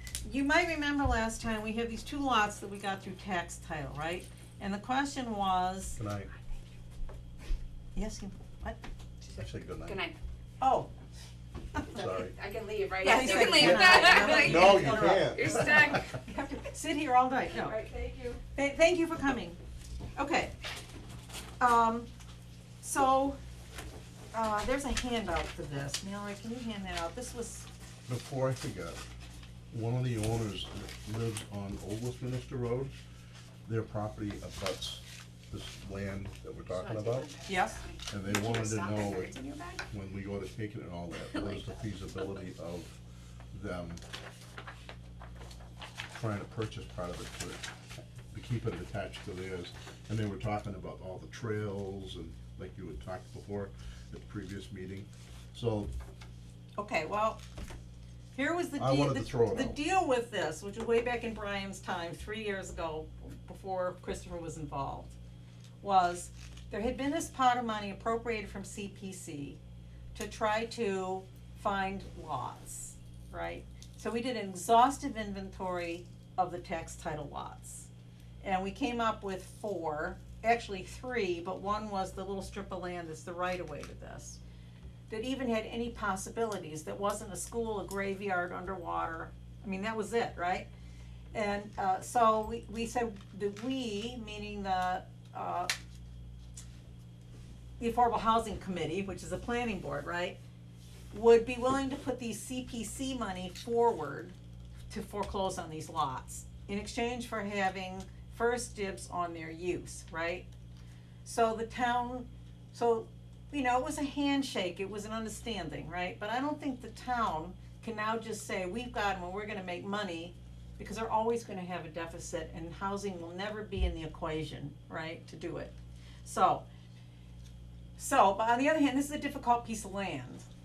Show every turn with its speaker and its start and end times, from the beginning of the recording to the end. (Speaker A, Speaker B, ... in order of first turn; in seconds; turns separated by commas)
Speaker A: 0.2-6.0, Speaker B: 6.0-6.3, Speaker A: 8.0-8.8, Speaker C: 9.2-10.2, Speaker B: 9.4-10.0, Speaker A: 10.6-10.9, Speaker C: 11.9-16.2, Speaker B: 11.9-12.3, Speaker A: 13.0-17.8, Speaker B: 13.1-16.1, Speaker C: 17.5-18.4, Speaker A: 18.5-19.6, Speaker A: 20.1-20.5, Speaker A: 21.6-22.1, Speaker A: 22.8-23.4, Speaker A: 24.3-27.7, Speaker B: 28.1-29.0, Speaker B: 29.7-33.0, Speaker B: 33.7-37.3, Speaker C: 36.7-39.9, Speaker A: 37.5-37.8, Speaker B: 38.1-39.3, Speaker B: 39.9-43.0, Speaker C: 41.3-41.6, Speaker B: 43.5-44.0, Speaker B: 46.1-47.6, Speaker B: 48.3-55.9, Speaker A: 56.8-57.4, Speaker A: 58.3-65.1, Speaker B: 58.8-59.8, Speaker A: 65.8-69.6, Speaker A: 70.1-77.9, Speaker A: 78.4-84.4, Speaker A: 85.1-90.7, Speaker A: 91.3-95.7, Speaker A: 97.8-100.4, Speaker A: 101.1-104.3, Speaker A: 104.9-110.5, Speaker A: 111.2-125.7, Speaker A: 126.2-126.6, Speaker A: 128.0-130.4